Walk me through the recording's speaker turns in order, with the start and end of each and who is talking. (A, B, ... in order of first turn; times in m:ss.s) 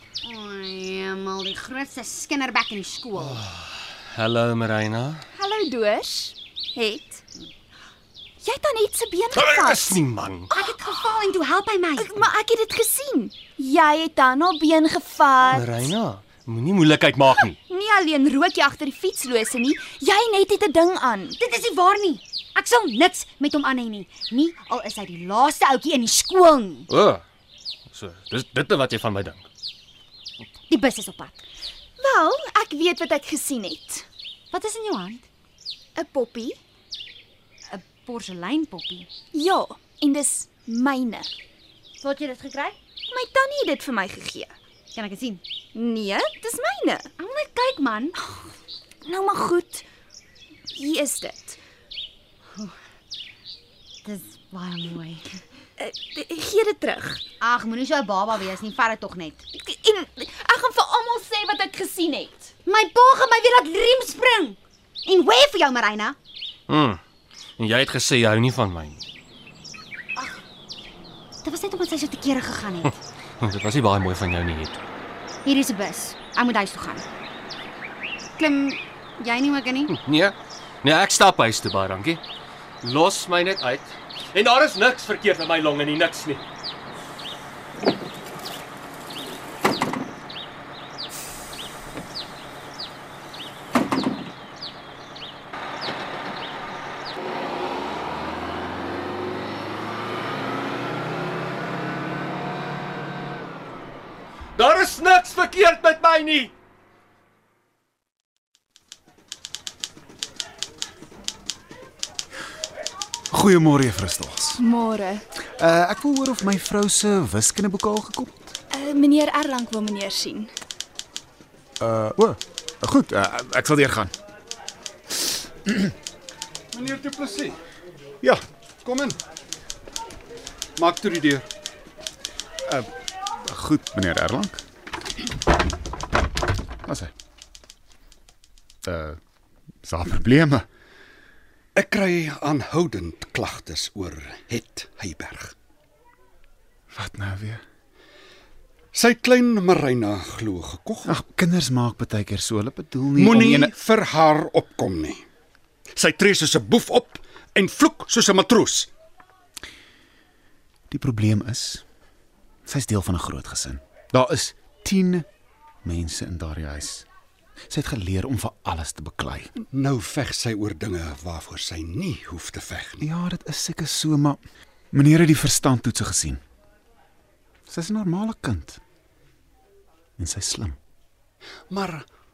0:00.2-0:03.4 A
0:03.2-0:05.2 B
0:05.3-0:07.2 C
0:08.4-0:10.0 C
0:09.3-0:10.5 B
0:10.5-0:12.2 A
0:12.0-0:15.9 C
0:15.5-0:17.6 B
0:17.7-0:21.4 C
0:21.4-0:26.9 A
0:26.9-0:27.2 B
0:27.9-0:29.4 B
0:30.7-0:31.4 A
0:32.0-0:34.1 C
0:34.5-0:35.2 A
0:35.9-0:36.6 C
0:37.7-0:39.1 A
0:39.3-0:41.3 C
0:42.0-0:42.8 A
0:43.1-0:44.5 C
0:44.9-0:45.4 A
0:45.7-0:47.1 C
0:47.2-0:48.2 A
0:49.0-0:49.8 C
0:50.7-0:51.6 C
0:54.0-0:55.4 A
0:55.8-0:57.2 C
0:57.4-0:59.4 A
0:59.6-1:02.5 C
1:02.7-1:06.2 A
1:06.7-1:07.0 B
1:07.6-1:09.0 B
1:11.4-1:12.9 A
1:13.4-1:14.8 B
1:15.4-1:17.0 A
1:18.4-1:19.9 A
1:19.9-1:22.2 B
1:22.8-1:26.4 B
1:44.6-1:46.5 B
1:53.3-1:54.6 D
1:54.6-1:55.2 C
1:55.6-1:58.5 D
1:58.7-2:00.5 C
2:01.8-2:04.1 D
2:06.7-2:07.6 E
2:08.8-2:09.2 E
2:10.8-2:11.5 E
2:13.4-2:14.6 D
2:16.8-2:17.1 D
2:18.8-2:19.2 D
2:19.8-2:20.7 D
2:21.7-2:25.5 E
2:26.9-2:27.6 D
2:28.9-2:31.1 E
2:31.0-2:33.7 D
2:33.2-2:35.2 E
2:36.0-2:38.9 E
2:40.9-2:41.8 D
2:42.7-2:45.3 D
2:45.8-2:47.0 D
2:47.7-2:49.5 D
2:49.6-2:53.0 E
2:53.0-2:54.4 D
2:54.9-2:56.4 D
2:57.7-2:58.8 D
3:00.2-3:00.8 D
3:01.7-3:02.0 E